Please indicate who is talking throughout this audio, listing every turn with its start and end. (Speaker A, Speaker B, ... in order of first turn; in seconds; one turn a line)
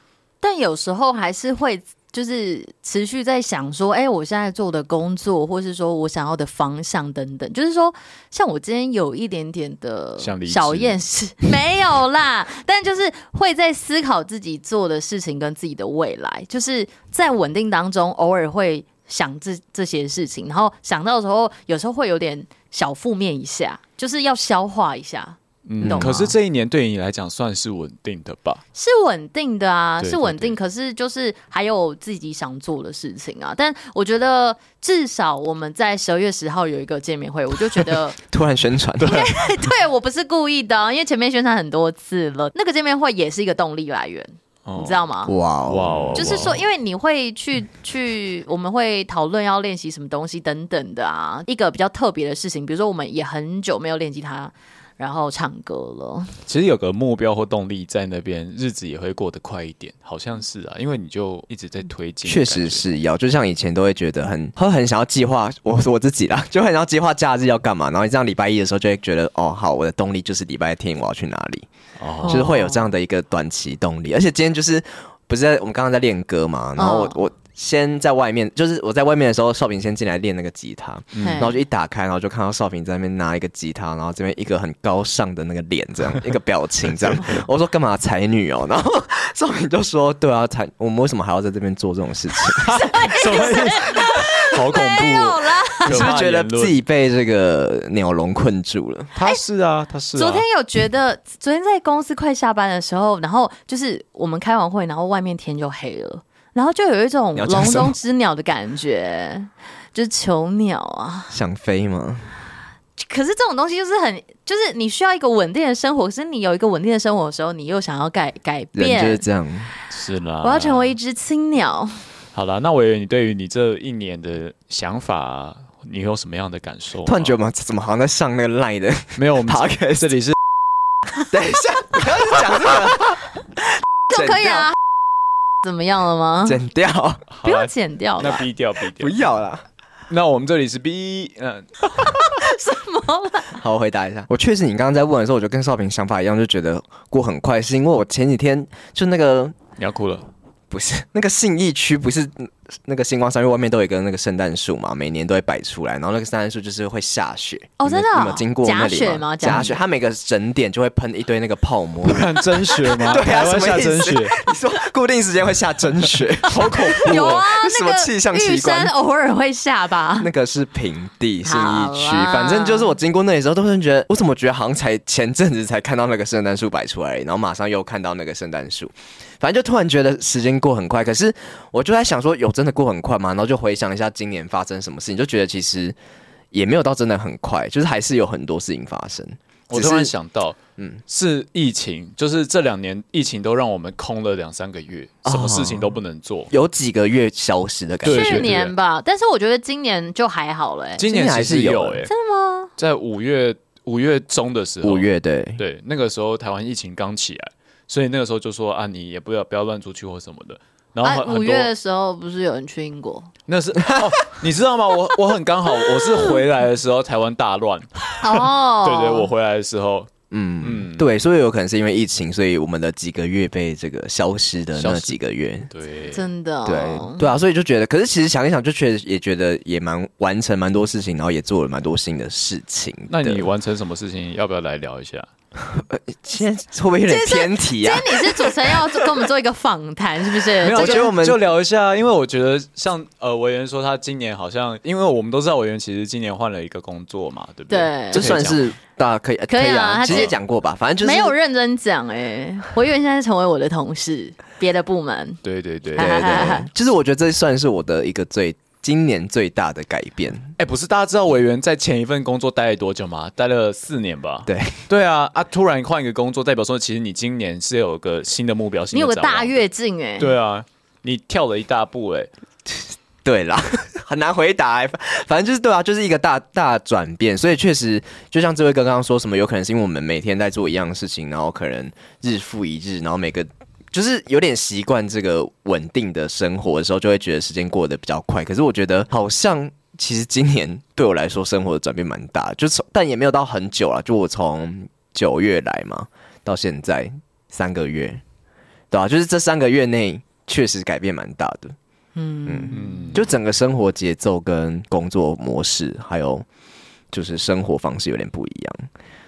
Speaker A: 0.4-26.1
Speaker B: 10.2-10.9
Speaker B: 25.7-28.6
Speaker C: 25.8-26.3
Speaker A: 28.8-38.2
Speaker B: 30.0-30.6
Speaker C: 38.3-39.2
Speaker B: 39.0-39.3
Speaker A: 39.0-45.4
Speaker B: 44.7-45.0
Speaker C: 45.2-46.5
Speaker B: 45.7-46.6
Speaker A: 46.1-56.3
Speaker B: 56.5-62.9
Speaker C: 62.2-71.7
Speaker B: 72.0-72.4
Speaker A: 72.2-72.9
Speaker C: 72.2-92.8
Speaker A: 76.8-77.2
Speaker B: 81.1-81.5
Speaker A: 81.2-81.6
Speaker A: 92.5-96.1
Speaker B: 92.6-96.8
Speaker C: 95.8-99.1
Speaker B: 99.1-100.5
Speaker A: 100.2-111.3
Speaker C: 107.4-107.9
Speaker C: 111.3-112.3
Speaker A: 113.0-119.2
Speaker C: 118.8-119.7
Speaker B: 119.9-120.9
Speaker A: 120.4-122.0
Speaker B: 122.3-127.4
Speaker C: 127.1-130.1
Speaker B: 129.2-130.4
Speaker C: 131.3-133.2
Speaker A: 134.1-134.8
Speaker C: 134.1-134.7
Speaker A: 135.6-136.6
Speaker C: 136.4-137.2
Speaker B: 137.3-139.1
Speaker A: 137.4-138.4
Speaker C: 139.0-139.7
Speaker B: 140.1-142.1
Speaker A: 142.2-143.6
Speaker C: 143.5-149.6
Speaker B: 149.8-150.3
Speaker C: 150.7-162.5
Speaker A: 157.8-159.7
Speaker B: 159.4-159.7
Speaker B: 162.0-164.3
Speaker C: 163.0-168.9
Speaker B: 166.5-167.4
Speaker A: 166.6-170.3
Speaker C: 170.2-185.9
Speaker A: 171.4-172.9
Speaker C: 186.5-190.1
Speaker B: 189.7-196.5
Speaker C: 190.8-191.0
Speaker C: 195.2-195.9
Speaker C: 196.5-198.6
Speaker B: 198.0-198.7
Speaker A: 198.1-201.0
Speaker B: 201.0-202.1
Speaker C: 201.0-202.1
Speaker A: 202.1-202.7
Speaker B: 202.8-211.7
Speaker C: 204.8-205.6
Speaker A: 211.0-213.3
Speaker B: 213.5-220.1
Speaker A: 216.1-216.4
Speaker A: 218.2-219.3
Speaker C: 220.3-225.7
Speaker B: 220.6-221.1
Speaker B: 224.8-225.2
Speaker B: 225.7-226.2
Speaker A: 226.1-227.3
Speaker C: 226.7-233.5
Speaker B: 233.1-235.3
Speaker C: 235.7-238.8
Speaker A: 237.1-241.1
Speaker B: 240.6-248.6
Speaker C: 240.7-241.4
Speaker A: 247.7-248.3
Speaker C: 248.1-251.3
Speaker A: 249.5-250.3
Speaker A: 251.0-255.4
Speaker B: 255.4-256.6
Speaker A: 255.9-256.7
Speaker C: 256.0-260.5
Speaker B: 260.6-269.6
Speaker C: 264.4-264.8
Speaker A: 268.9-270.3
Speaker B: 270.2-272.3
Speaker C: 272.7-298.2
Speaker C: 298.9-301.8
Speaker A: 302.1-303.1
Speaker C: 302.4-306.4
Speaker B: 302.7-303.2
Speaker C: 307.1-308.9